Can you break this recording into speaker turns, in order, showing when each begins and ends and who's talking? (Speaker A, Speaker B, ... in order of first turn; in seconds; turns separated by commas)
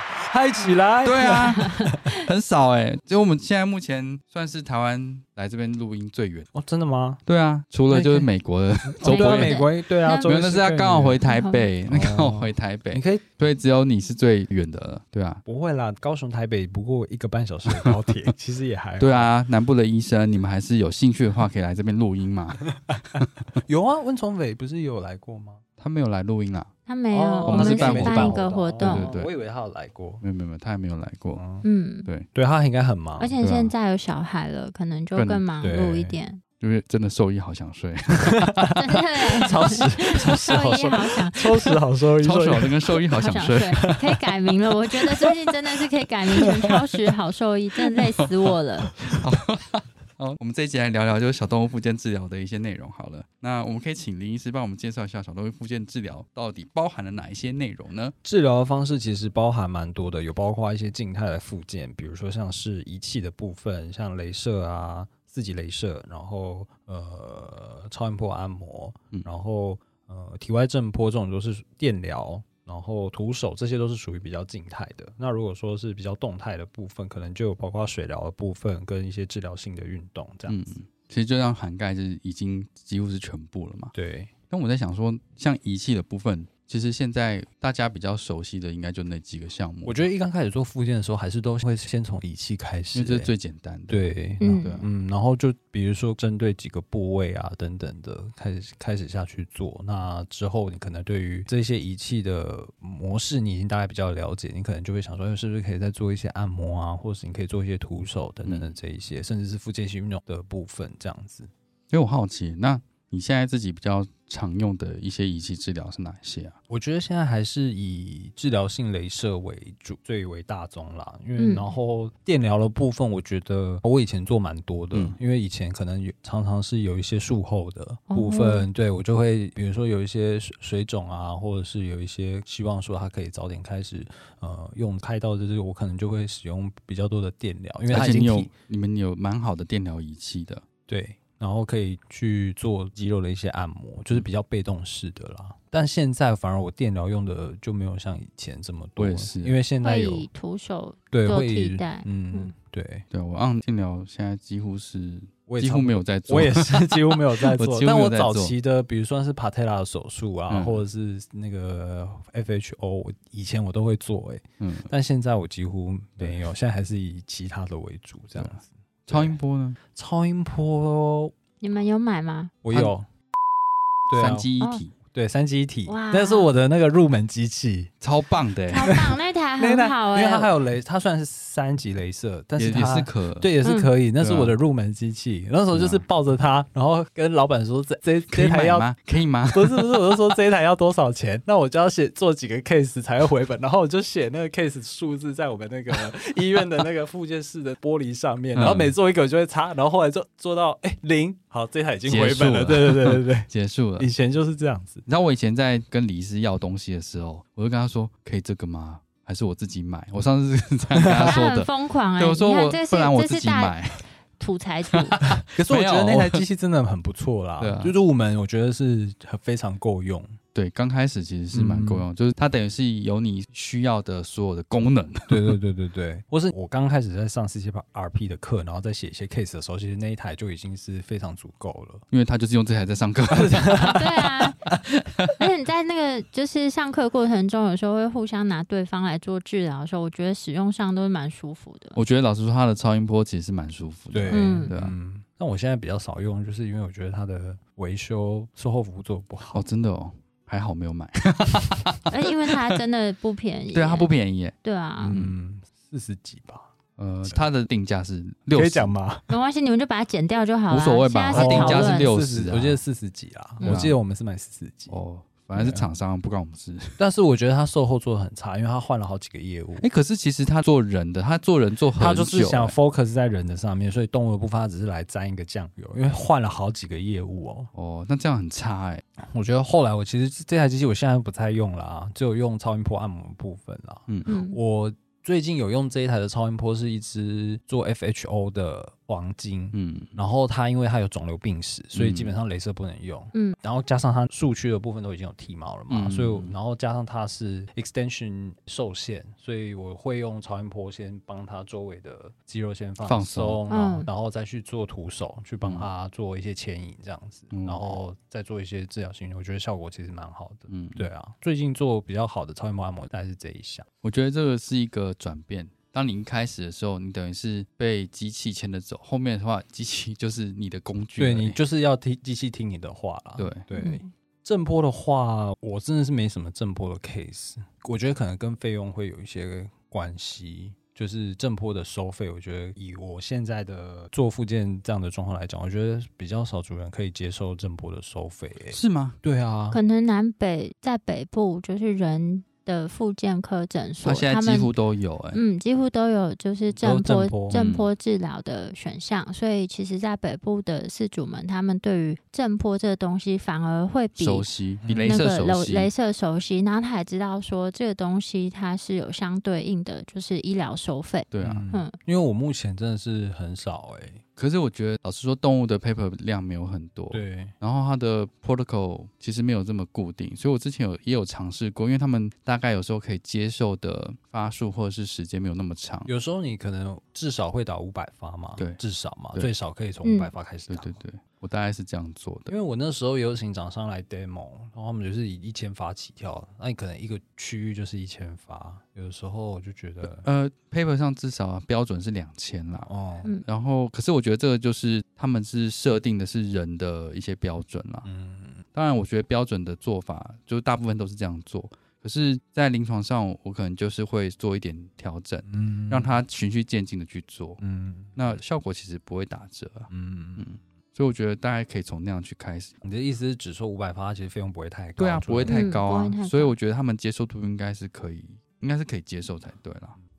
Speaker A: 0.2-2.0, Speaker B: 1.0-6.5, Speaker C: 1.5-2.1, Speaker A: 6.5-7.2, Speaker B: 7.2-15.4, Speaker A: 7.9-8.3, Speaker A: 8.8-11.2, Speaker C: 9.0-10.3, Speaker C: 11.2-11.7, Speaker A: 11.8-13.2, Speaker A: 15.4-19.3, Speaker B: 19.0-23.3, Speaker A: 22.9-25.6, Speaker B: 25.8-26.7, Speaker C: 26.9-29.1, Speaker A: 27.1-30.2, Speaker B: 27.4-29.3, Speaker B: 30.2-31.4, Speaker A: 31.3-31.6, Speaker C: 31.6-32.1, Speaker A: 32.3-33.4, Speaker C: 33.2-36.4, Speaker B: 33.4-33.7, Speaker B: 35.1-35.4, Speaker A: 35.6-36.2, Speaker B: 36.6-38.7, Speaker A: 38.2-38.7, Speaker C: 38.7-41.5, Speaker A: 39.4-43.0, Speaker B: 42.2-43.8, Speaker C: 43.1-48.9, Speaker A: 43.8-44.2, Speaker A: 45.0-45.5, Speaker A: 46.3-46.7, Speaker B: 49.1-58.1, Speaker A: 58.2-80.6, Speaker B: 80.5-83.9, Speaker A: 83.9-84.3, Speaker B: 84.5-90.1, Speaker A: 89.8-93.3, Speaker B: 92.9-94.0, Speaker A: 93.9-111.5, Speaker C: 94.4-94.7, Speaker B: 94.6-94.9, Speaker B: 108.5-108.7, Speaker B: 111.9-116.5, Speaker A: 116.7-138.5, Speaker C: 121.4-121.7, Speaker C: 128.1-128.7, Speaker B: 137.9-140.6, Speaker A: 140.9-150.3, Speaker B: 149.0-149.6, Speaker C: 149.8-152.5, Speaker A: 151.1-153.0, Speaker B: 153.1-158.5, Speaker A: 155.5-169.4, Speaker B: 160.5-160.8, Speaker B: 164.6-164.9, Speaker B: 169.1-169.8, Speaker A: 169.9-171.3, Speaker C: 171.6-172.5, Speaker A: 172.6-173.1, Speaker A: 174.1-177.9, Speaker B: 174.1-174.9, Speaker C: 175.9-176.5, Speaker B: 178.0-179.0, Speaker C: 178.7-180.5, Speaker A: 178.9-188.9, Speaker B: 182.6-183.5, Speaker C: 183.6-183.9, Speaker B: 184.2-184.5, Speaker B: 185.7-186.0, Speaker B: 188.3-190.0, Speaker A: 189.5-205.0, Speaker B: 198.5-198.9, Speaker B: 202.1-204.1, Speaker B: 205.1-214.0, Speaker A: 210.9-211.4, Speaker C: 211.1-213.8, Speaker C: 214.4-215.2, Speaker B: 214.9-216.4, Speaker A: 215.3-220.4, Speaker B: 217.6-217.9, Speaker B: 220.5-225.6, Speaker A: 221.5-222.1, Speaker A: 225.3-232.0, Speaker B: 232.1-234.1, Speaker A: 233.3-234.8, Speaker C: 233.7-234.6, Speaker B: 234.8-235.3, Speaker C: 235.4-242.0, Speaker B: 241.9-244.9, Speaker A: 244.1-249.6, Speaker C: 244.3-244.7, Speaker B: 249.5-252.6, Speaker C: 252.1-254.1, Speaker B: 253.7-254.6, Speaker C: 254.6-255.1, Speaker A: 255.0-256.7, Speaker B: 255.1-255.3, Speaker B: 257.0-258.9, Speaker A: 258.5-259.3, Speaker C: 259.3-262.1, Speaker B: 260.7-262.8, Speaker A: 261.3-265.0, Speaker B: 263.6-263.9, Speaker B: 264.9-267.0, Speaker A: 265.5-265.9, Speaker A: 267.0-269.9, Speaker B: 269.8-272.8, Speaker A: 272.0-277.7, Speaker B: 277.7-279.0, Speaker A: 279.2-313.9, Speaker C: 284.3-284.6, Speaker B: 289.7-290.1, Speaker B: 291.9-292.3, Speaker B: 295.9-296.5, Speaker B: 303.0-303.6, Speaker C: 303.7-304.1, Speaker B: 307.5-308.0, Speaker B: 310.7-311.1, Speaker B: 314.0-321.6, Speaker A: 321.2-339.8, Speaker B: 323.4-323.6, Speaker C: 323.7-324.1, Speaker B: 338.7-339.2, Speaker C: 339.7-344.7, Speaker B: 344.0-345.4, Speaker C: 345.3-354.4, Speaker A: 346.7-347.6, Speaker B: 347.5-347.9, Speaker B: 354.1-355.9, Speaker A: 354.8-355.2, Speaker C: 355.0-361.9, Speaker B: 361.3-361.6, Speaker A: 361.4-364.2, Speaker B: 364.4-376.1, Speaker A: 367.1-367.5, Speaker A: 376.1-381.0, Speaker C: 380.0-380.3, Speaker B: 380.7-382.5, Speaker A: 382.5-390.2, Speaker B: 390.0-392.9, Speaker A: 392.9-393.3, Speaker B: 393.4-398.1, Speaker A: 398.0-398.6, Speaker B: 398.7-407.6, Speaker A: 405.5-406.1, Speaker A: 407.6-408.4, Speaker B: 408.1-412.7, Speaker A: 409.9-410.5, Speaker A: 412.8-415.6, Speaker B: 415.0-420.0, Speaker C: 415.4-416.6